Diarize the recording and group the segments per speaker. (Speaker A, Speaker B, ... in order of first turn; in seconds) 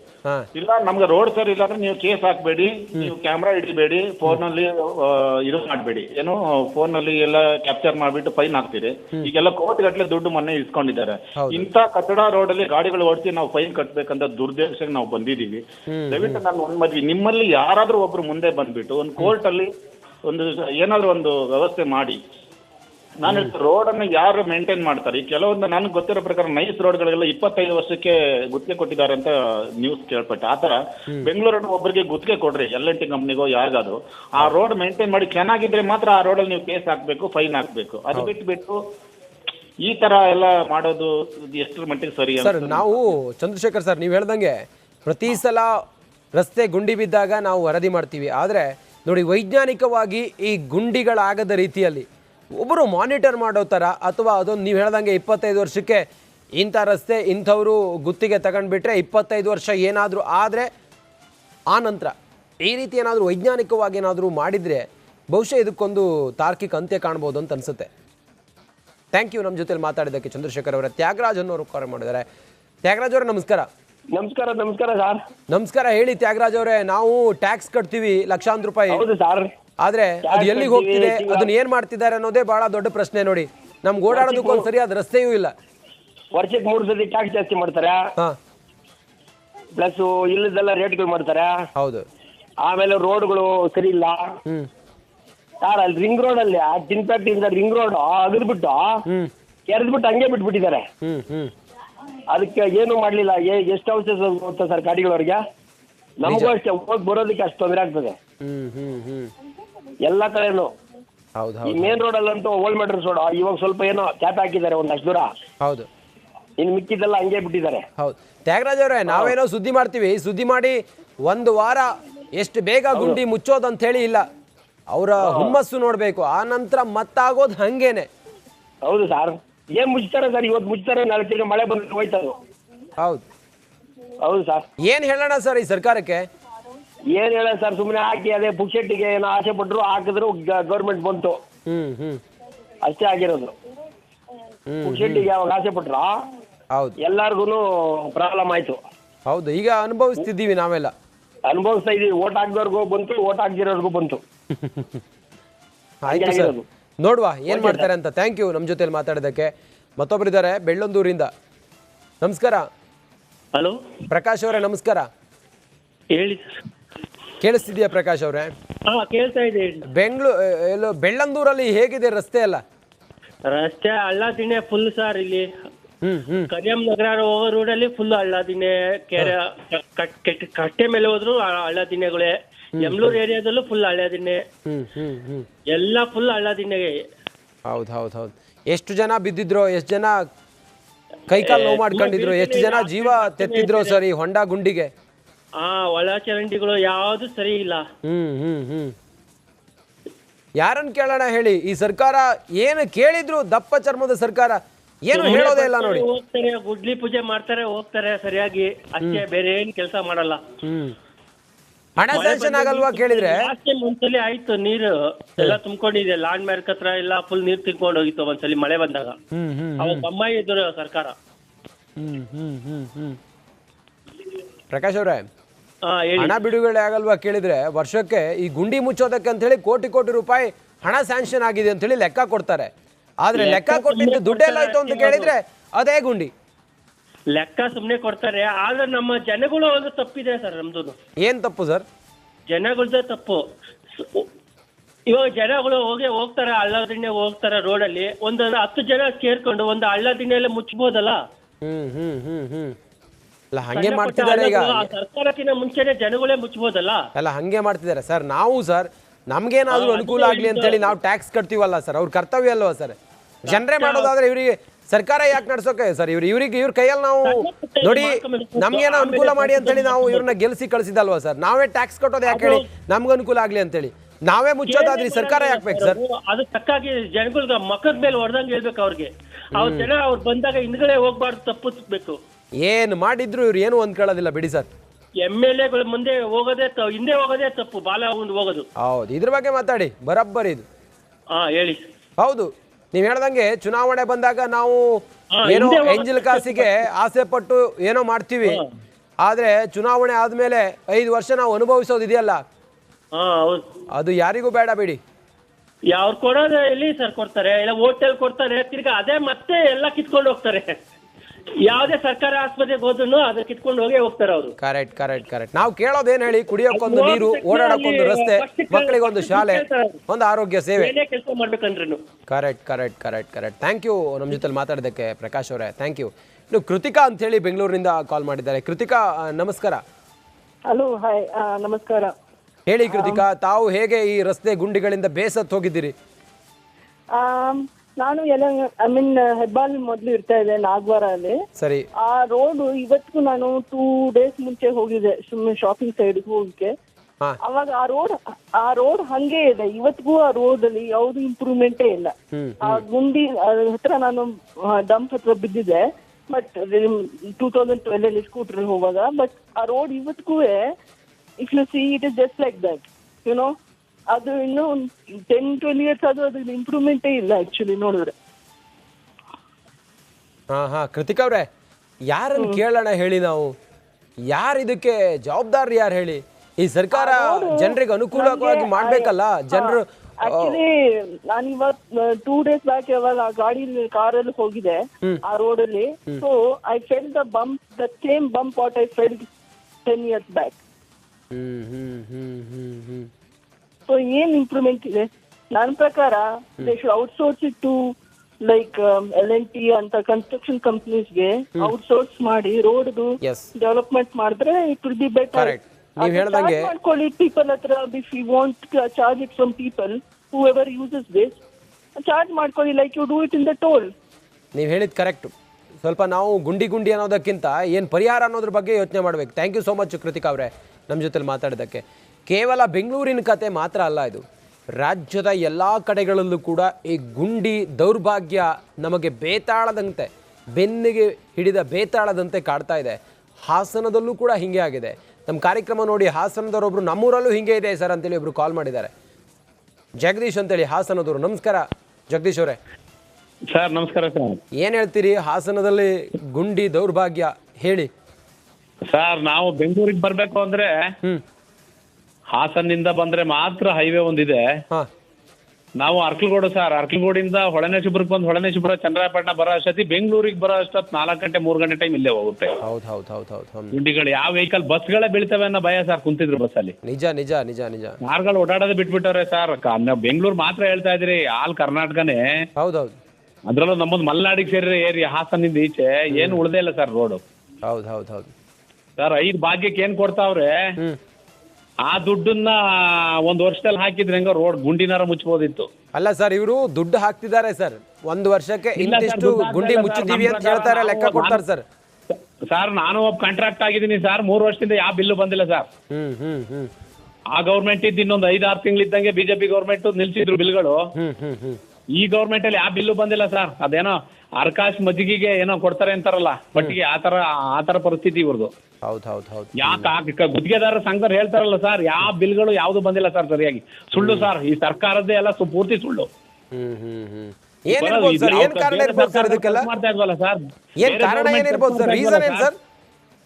Speaker A: 0.5-19.7, 20.2-22.2, 23.2-38.8, 39.8-43.0
Speaker B: 11.4-11.7, 15.9-16.4, 23.3-23.5, 42.4-45.8, 46.4-56.1, 56.6-60.7, 61.7-67.9, 69.1-72.3, 72.8-73.7, 75.5-79.0, 79.8-85.5, 91.8-92.0, 99.1-99.3, 101.0-101.5, 106.2-106.5, 108.4-109.3, 111.4-112.0, 115.6-115.9, 118.0-124.2, 124.9-128.1, 133.0-133.2, 134.8-136.3, 141.7-142.2, 144.7-145.3, 149.3-150.9, 154.5-155.0, 156.0-161.3, 162.2-162.7, 164.1-165.1, 167.4-168.5, 169.9-172.6, 176.0-176.5, 182.8-183.2, 184.7-185.5, 187.7-190.2, 191.3-194.9, 198.0-198.9, 200.6-206.0, 210.6-211.0, 212.0-213.5, 219.3-220.1, 222.0-223.2, 224.7-225.3, 226.2-232.7, 233.2-236.3, 241.2-241.9, 251.6-252.8, 253.5-254.9, 257.1-276.0, 279.5-279.9, 282.6-284.7, 288.8-290.6, 292.2-298.6, 299.2-302.4, 303.9-305.0, 314.6-320.9, 322.3-329.8, 332.7-335.9, 341.6-341.9, 352.3-352.8, 370.5-371.5, 372.1-373.5, 374.3-380.6, 391.3-393.1, 403.2-403.5, 405.3-406.7, 414.5-438.9, 440.0-442.6, 444.6-447.9, 462.6-463.8, 466.8-468.0, 472.6-472.9, 476.1-476.4, 477.6-478.3, 485.9-491.6, 495.9-496.7, 500.9-501.6, 508.8-509.9, 514.0-514.3, 516.5-519.7, 520.8-522.5
Speaker C: 74.1-75.2, 78.9-79.5, 80.2-81.5, 84.1-84.7, 86.3-88.0, 89.8-91.5, 92.6-94.3, 95.6-99.0, 99.7-100.9, 102.3-105.4, 106.2-108.2, 110.0-110.7, 111.6-115.3, 116.6-117.9, 122.9-123.2, 125.2-125.6, 128.8-132.3, 134.2-134.7, 137.1-141.4, 142.8-143.5, 144.8-146.1, 147.0-148.8, 151.5-154.2, 156.1-156.6, 157.5-157.9
Speaker D: 166.1-166.5, 168.9-169.8, 173.5-175.5, 176.5-184.4, 185.7-186.9, 191.3-194.0, 195.6-197.8, 205.1-210.4, 212.1-219.2, 219.8-221.1, 225.9-226.4, 233.3-235.3, 237.3-240.9, 242.5-243.4, 243.9-244.3, 245.1-251.2, 253.8-257.1, 259.7-260.8, 263.5-264.1, 267.2-270.3, 272.3-272.6, 274.7-282.2, 285.2-288.6, 291.3-291.8, 295.4-296.8, 303.1-303.6, 305.9-310.8, 311.6-314.5, 316.7-320.0, 320.8-322.0
Speaker E: 330.7-332.1, 332.9-333.2, 337.1-341.4, 342.0-346.7, 347.4-360.6, 361.4-363.5, 364.1-368.1, 376.9-389.2, 389.9-390.6, 393.9-397.9, 398.4-411.4, 412.0-413.9
Speaker F: 443.5-444.4, 448.9-450.9, 452.3-454.6, 455.8-462.6, 463.7-466.7, 468.0-472.5, 473.5-477.2, 479.0-480.5, 481.9-485.7, 488.8-491.4, 492.1-495.7, 497.3-500.9, 501.9-508.5, 509.6-516.1, 517.7-522.5